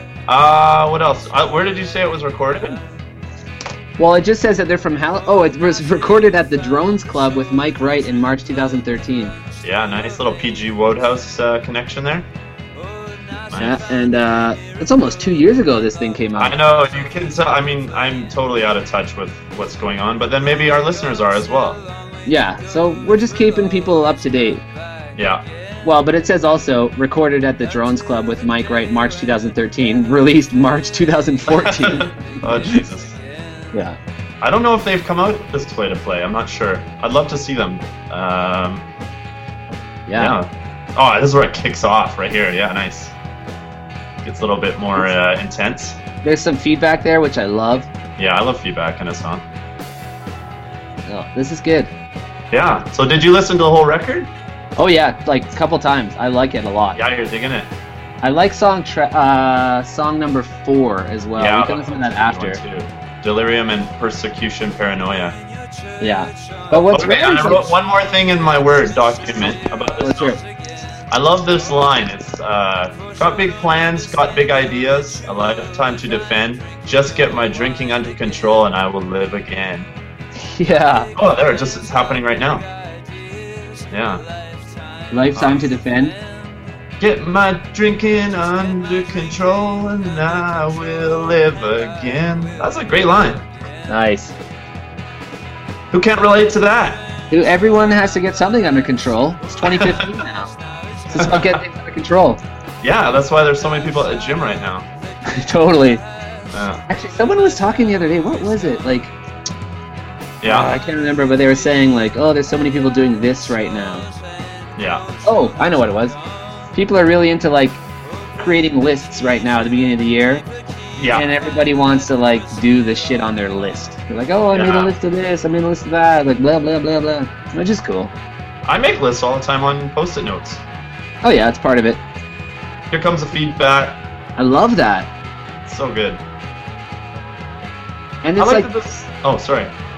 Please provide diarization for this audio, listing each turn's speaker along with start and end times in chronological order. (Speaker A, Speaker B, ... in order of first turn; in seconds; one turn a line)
Speaker A: 0.3-2.8
Speaker B: 4.0-9.3
Speaker A: 9.6-12.2
Speaker A: 13.5-13.8
Speaker B: 13.5-16.6
Speaker A: 16.4-21.8
Speaker B: 22.2-24.6
Speaker A: 25.1-25.4
Speaker B: 25.8-32.1
Speaker A: 31.5-33.2
Speaker A: 34.4-38.8
Speaker B: 40.1-40.4
Speaker A: 40.1-43.1
Speaker A: 44.2-46.0
Speaker B: 46.2-47.9
Speaker A: 48.2-49.4
Speaker B: 51.0-51.9
Speaker A: 52.5-54.3
Speaker B: 54.8-57.0
Speaker A: 56.9-57.7
Speaker B: 58.2-62.6
Speaker A: 61.4-65.4
Speaker B: 66.0-67.6
Speaker A: 66.7-70.4
Speaker B: 70.0-70.4
Speaker A: 71.1-79.9
Speaker B: 80.4-81.1
Speaker A: 81.2-82.7
Speaker A: 83.9-84.2
Speaker B: 85.1-86.2
Speaker A: 85.3-85.6
Speaker A: 87.0-93.5
Speaker B: 93.9-94.3
Speaker A: 95.9-97.0
Speaker B: 97.3-100.5
Speaker A: 99.6-100.0
Speaker B: 101.1-102.4
Speaker A: 101.2-101.6
Speaker A: 102.8-104.9
Speaker B: 105.3-106.0
Speaker A: 106.5-106.8
Speaker B: 106.9-109.1
Speaker A: 110.4-110.8
Speaker B: 110.4-114.1
Speaker A: 114.8-115.0
Speaker B: 115.2-116.2
Speaker B: 116.7-117.8
Speaker B: 118.4-120.5
Speaker A: 121.0-121.3
Speaker B: 121.1-128.1
Speaker A: 124.5-124.9
Speaker A: 128.7-130.6
Speaker B: 131.2-132.0
Speaker A: 132.9-134.0
Speaker B: 134.4-135.1
Speaker A: 135.6-136.2
Speaker B: 138.2-138.7
Speaker A: 138.4-139.7